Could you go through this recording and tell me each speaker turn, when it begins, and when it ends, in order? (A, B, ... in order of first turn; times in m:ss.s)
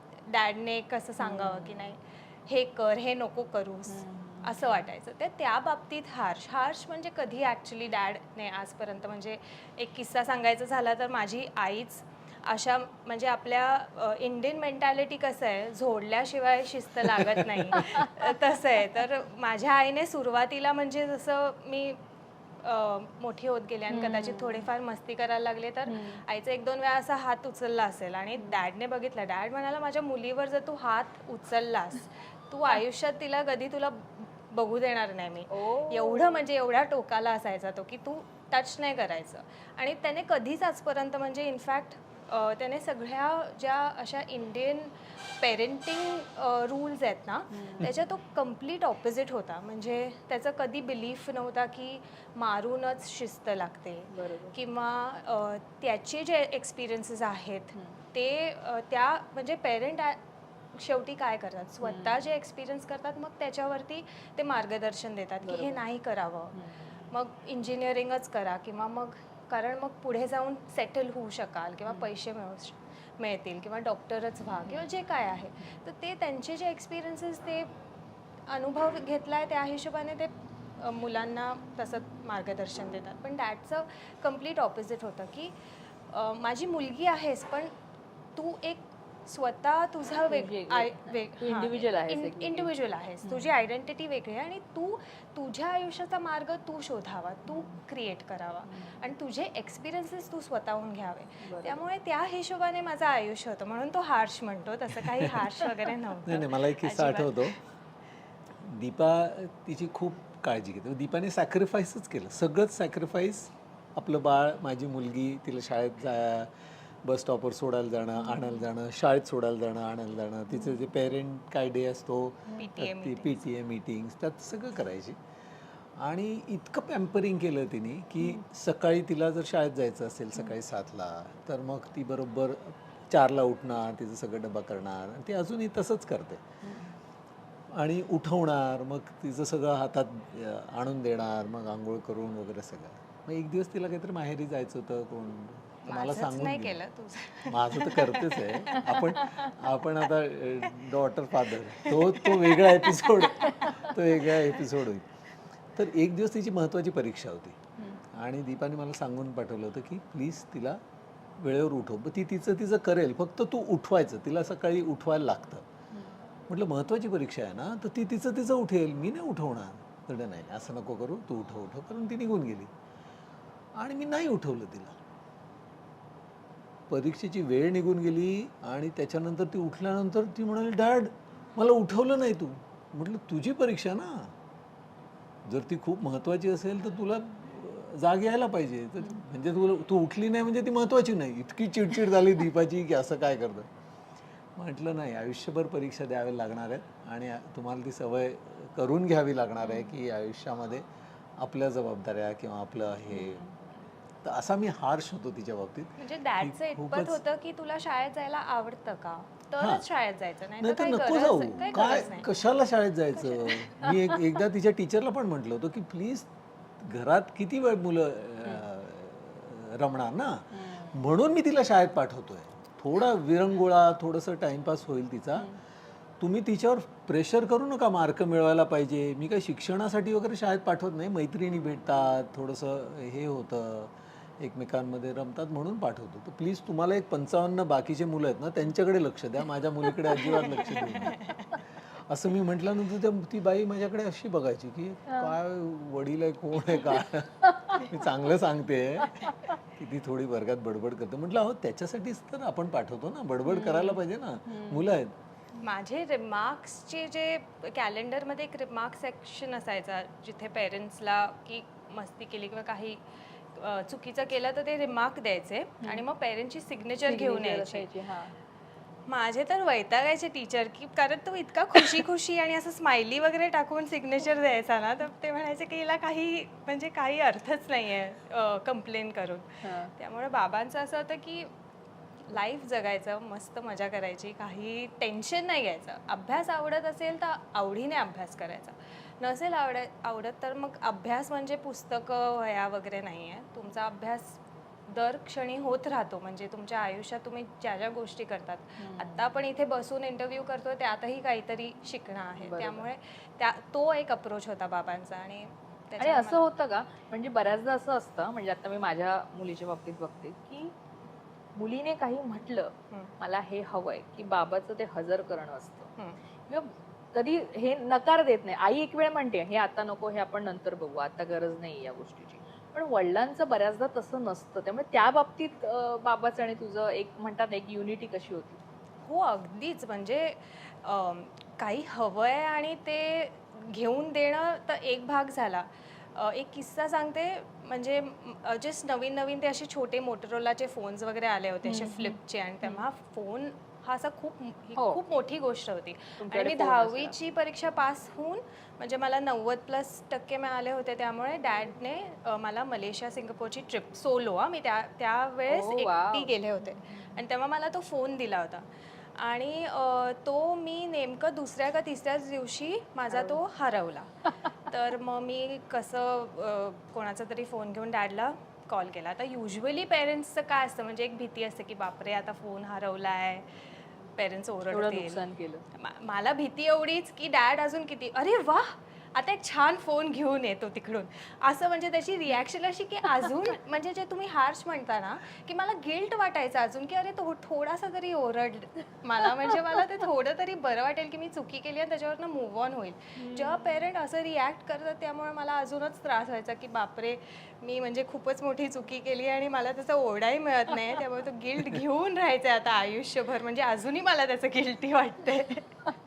0:00.2-0:22.0 A
0:01.2-0:01.9 B
0:03.9-0:04.9 B
0:17.1-0:17.4 C
0:17.7-0:18.2 B
0:22.6-1:00.2 A
0:23.9-0:24.7 B
0:25.8-0:26.2 B
0:35.5-0:36.4 B
0:47.5-0:48.0 B
0:54.1-0:54.5 B
1:00.7-1:06.6 A
1:01.8-1:02.3 B
1:05.4-1:05.8 B
1:06.5-1:07.1 B
1:07.1-1:17.7 A
1:18.5-1:25.5 A
1:26.1-1:27.7 A
1:28.4-1:47.6 A
1:30.3-1:32.7 B
1:33.2-1:33.5 B
1:37.5-1:37.7 B
1:38.7-1:39.1 B
1:41.4-1:41.8 B
1:45.1-1:45.4 C
1:46.2-1:47.6 C
1:48.6-1:56.5 C
1:57.0-2:05.2 C
1:58.2-1:58.6 B
2:00.5-2:00.8 B
2:02.6-2:03.4 A
2:06.0-2:16.4 C
2:16.6-2:16.9 B
2:17.7-2:26.8 C
2:25.8-2:28.4 A
2:27.4-2:35.1 C
2:28.7-2:29.4 B
2:31.8-2:33.1 A
2:35.7-2:37.6 C
2:38.1-2:40.8 C
2:41.4-2:45.6 C
2:46.5-2:52.7 C
2:53.8-2:55.0 C
2:56.9-3:04.3 C
3:05.4-3:13.7 C
3:14.6-3:20.8 C
3:21.4-3:23.4 C
3:23.1-3:23.7 B
3:24.2-3:27.2 C
3:26.0-3:32.3 A
3:29.6-3:29.9 C
3:30.6-3:36.3 C
3:33.5-3:34.2 B
3:36.8-3:45.5 C
3:40.5-3:41.0 B
3:46.2-4:01.3 C
4:02.1-4:15.1 C
4:05.1-4:05.3 B
4:06.7-4:07.0 B
4:07.6-4:07.8 B
4:09.1-4:09.3 B
4:13.4-4:14.9 B
4:15.6-4:27.8 A
4:25.8-4:26.1 B
4:27.0-4:28.3 B
4:29.1-4:41.5 A
4:39.6-4:39.9 B
4:42.3-5:06.4 A
4:58.8-4:59.2 B
5:02.4-5:02.8 B
5:06.0-5:10.7 B
5:11.6-5:15.9 B
5:16.5-5:28.6 B
5:29.0-6:15.2 A
5:41.6-5:42.8 B
5:44.8-5:45.0 B
5:46.2-5:47.1 B
5:55.5-5:56.3 B
6:03.1-6:03.4 B
6:14.7-6:15.6 B
6:15.7-6:45.8 A
6:33.2-6:33.9 B